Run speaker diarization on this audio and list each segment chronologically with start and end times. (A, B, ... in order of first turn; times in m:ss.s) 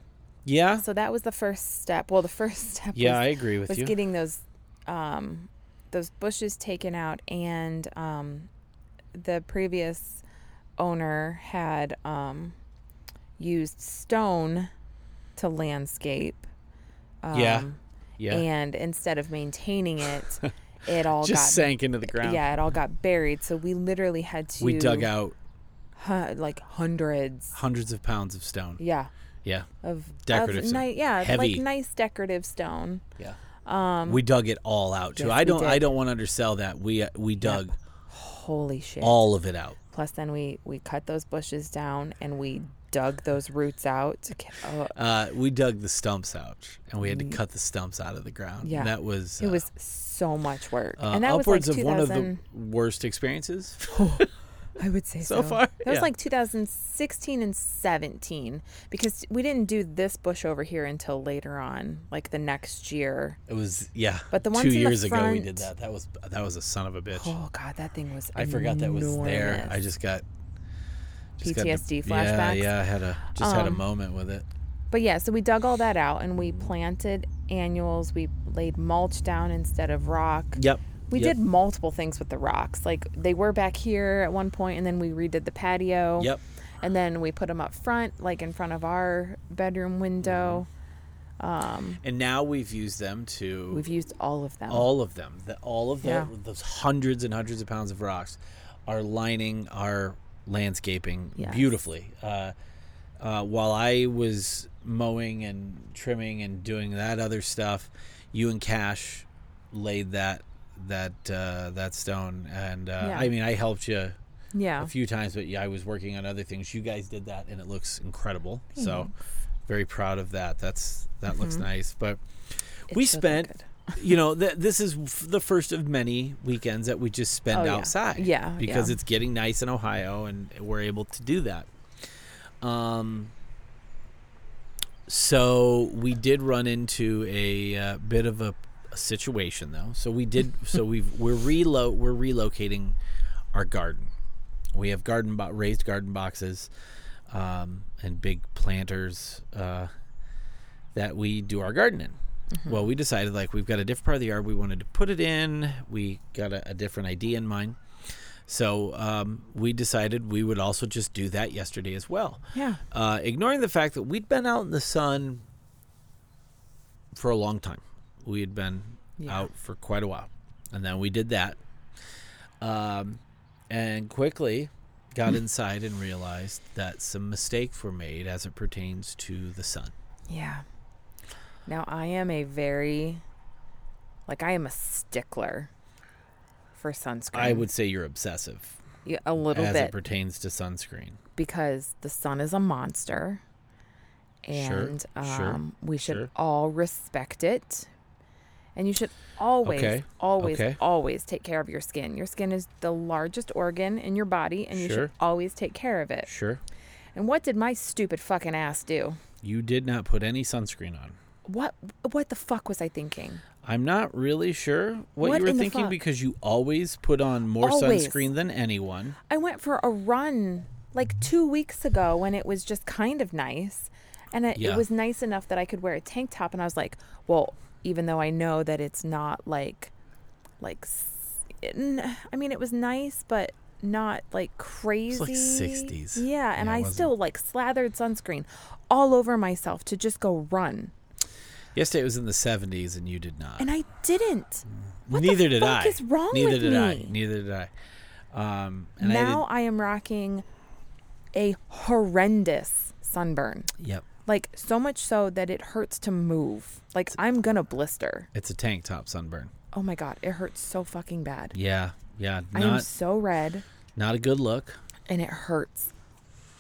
0:00.4-0:00.8 A
0:00.8-0:08.5 B
0:02.9-0:04.0 A
0:09.1-0:10.2 B
0:10.8-0:12.6 B
0:13.4-0:14.7 B
0:15.4-0:16.5 B
0:17.2-0:17.8 B
0:17.3-0:17.7 A
0:18.2-0:18.4 A
0:18.3-0:25.1 B
0:21.2-0:22.4 A
0:24.6-0:25.4 A
0:26.0-0:27.6 B
0:27.5-0:28.8 A
0:28.8-0:29.1 B
0:29.8-0:33.0 B
0:30.2-0:31.6 A
0:33.6-0:34.2 B
0:34.1-0:37.8 A
0:35.2-0:35.9 B
0:37.4-0:39.3 B
0:39.0-0:39.8 A
0:39.9-0:45.0 B
0:44.9-0:49.6 A
0:47.0-0:47.4 B
0:48.6-0:52.4 B
0:51.0-0:54.2 A
0:53.9-0:54.3 B
0:54.8-1:03.4 B
0:55.2-0:56.1 A
1:03.5-1:07.3 A
1:04.3-1:05.7 B
1:07.1-1:09.8 B
1:08.4-1:10.2 A
1:11.4-1:14.5 A
1:11.4-1:12.7 B
1:13.3-1:13.8 B
1:14.9-1:30.7 B
1:20.6-1:21.4 A
1:30.2-1:30.6 A
1:31.4-1:32.0 B
1:32.0-1:33.8 A
1:33.7-1:34.9 B
1:34.7-1:42.5 A
1:36.0-1:36.3 B
1:41.4-1:41.7 B
1:43.2-1:54.2 A
1:53.0-1:53.3 B
1:54.5-1:54.9 B
1:54.8-1:59.1 A
1:58.8-1:59.1 B
1:59.7-2:11.7 A
2:01.3-2:01.6 B
2:02.9-2:04.0 B
2:07.5-2:09.0 B
2:12.6-2:13.3 A
2:15.1-2:23.0 A
2:23.5-2:24.1 A
2:24.7-2:26.7 A
2:27.3-2:29.9 A
2:30.9-2:37.8 A
2:38.5-2:45.4 A
2:42.5-2:42.8 B
2:47.1-2:51.6 A
2:49.2-2:49.5 B
2:52.6-2:59.9 A
3:00.3-3:00.6 B
3:01.7-3:03.2 B
3:04.3-3:05.7 B
3:06.8-3:07.7 B
3:07.3-3:08.8 A
3:09.0-3:10.0 B
3:09.5-3:11.2 A
3:11.4-3:13.4 B
3:14.4-3:17.9 B
3:14.5-3:16.3 A
3:18.8-3:26.3 B
3:19.6-3:20.8 A
3:24.7-3:25.1 A
3:26.3-3:26.6 A
3:27.2-3:29.2 B
3:29.4-3:31.2 A
3:31.5-3:33.4 B
3:33.6-3:39.2 A
3:35.2-3:36.0 B
3:37.6-3:38.3 B
3:39.3-3:49.9 B
3:44.6-3:44.8 A
3:50.6-4:00.9 B
3:55.1-3:57.1 A
4:01.8-4:03.7 A
4:03.6-4:07.2 B
4:05.1-4:07.7 A
4:08.3-4:09.4 A
4:09.0-4:10.4 B
4:11.3-4:13.7 B
4:13.8-4:14.1 A
4:14.3-4:18.3 B
4:18.3-4:19.5 A
4:19.7-4:21.6 B
4:21.5-4:22.9 A
4:22.5-4:23.6 B
4:24.0-4:24.8 A
4:25.1-4:25.9 B